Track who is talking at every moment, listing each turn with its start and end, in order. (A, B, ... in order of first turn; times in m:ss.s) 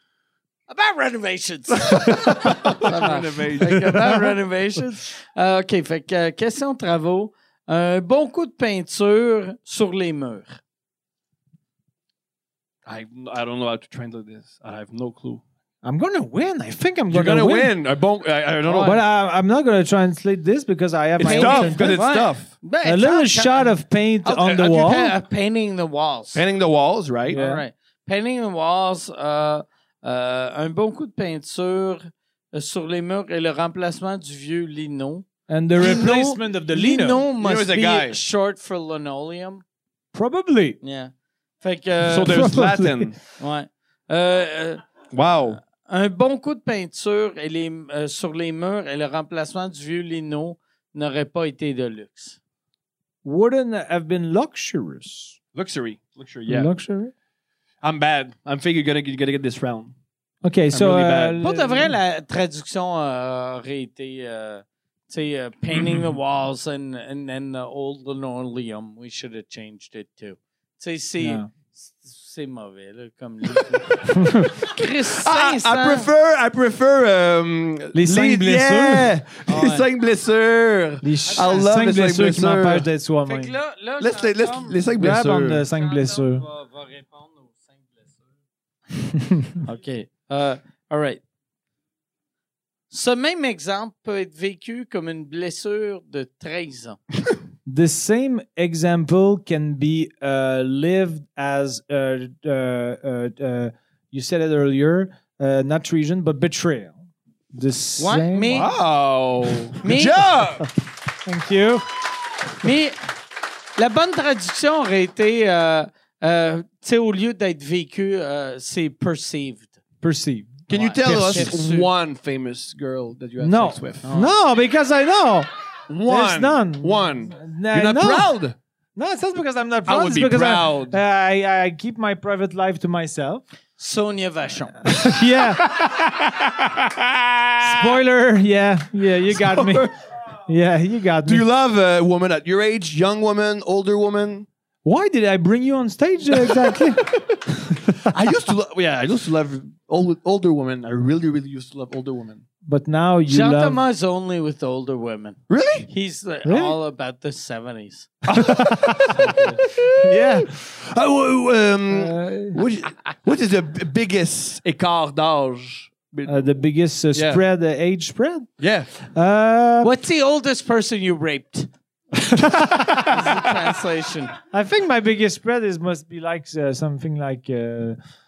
0:00.7-0:10.6 A
0:01.8-0:04.2 B
0:12.9-0:15.4 B
0:15.8-0:17.7 C
0:17.1-0:19.0 B
0:18.6-0:19.0 A
0:18.8-0:22.1 C
0:21.2-0:22.5 B
0:21.2-0:26.4 A
0:22.8-0:25.2 C
0:26.4-0:27.4 B
0:27.3-0:27.6 C
0:27.3-0:39.6 A
0:35.5-0:37.2 C
0:37.4-0:38.2 B
0:40.1-0:40.8 C
0:40.8-0:42.5 A
0:42.0-0:43.2 B
0:42.3-0:43.1 C
0:43.4-0:44.8 A
0:45.1-0:45.6 B
0:45.8-0:52.4 A
0:53.2-0:55.4 C
0:55.5-0:56.7 B
0:56.5-0:57.1 C
0:57.8-0:59.9 B
1:00.4-1:01.9 C
1:00.7-1:01.4 B
1:01.4-1:14.1 A
1:11.2-1:11.5 C
1:14.1-1:14.7 C
1:14.6-1:16.1 A
1:14.7-1:22.9 B
1:17.9-1:19.1 C
1:19.5-1:19.9 A
1:21.0-1:23.5 C
1:23.2-1:24.8 A
1:24.0-1:25.6 B
1:25.0-1:26.4 C
1:26.2-1:27.6 A
1:29.2-1:29.6 C
1:29.6-1:31.2 A
1:32.9-1:37.0 A
1:37.7-1:47.0 C
1:47.5-1:48.7 C
1:48.0-1:48.7 A
1:48.5-1:50.7 B
1:49.8-1:50.3 A
1:51.3-1:51.8 C
1:52.6-1:53.0 A
1:53.8-1:59.7 A
2:00.0-2:01.5 C
2:00.7-2:04.0 B
2:00.7-2:01.9 A
2:03.4-2:05.5 C
2:04.0-2:04.4 A
2:05.9-2:08.6 B
2:06.1-2:08.3 C
2:09.0-2:13.4 C
2:09.9-2:11.0 B
2:13.8-2:14.8 A
2:14.9-2:15.8 C
2:15.5-2:17.9 B
2:17.6-2:19.9 C
2:19.3-2:19.9 B
2:20.5-2:21.4 C
2:21.2-2:24.5 B
2:24.8-2:28.0 C
2:26.4-2:32.4 B
2:32.6-2:33.8 C
2:33.3-2:38.1 A
2:35.5-2:35.9 B
2:36.4-2:36.8 C
2:38.3-2:40.5 C
2:38.3-2:46.5 B
2:41.9-2:42.6 C
2:46.3-2:49.9 C
2:47.1-2:47.4 B
2:48.6-2:48.9 B
2:49.8-2:51.7 A
2:52.1-2:53.2 C
2:52.6-2:53.2 B
2:53.1-2:54.3 A
2:54.5-2:58.0 C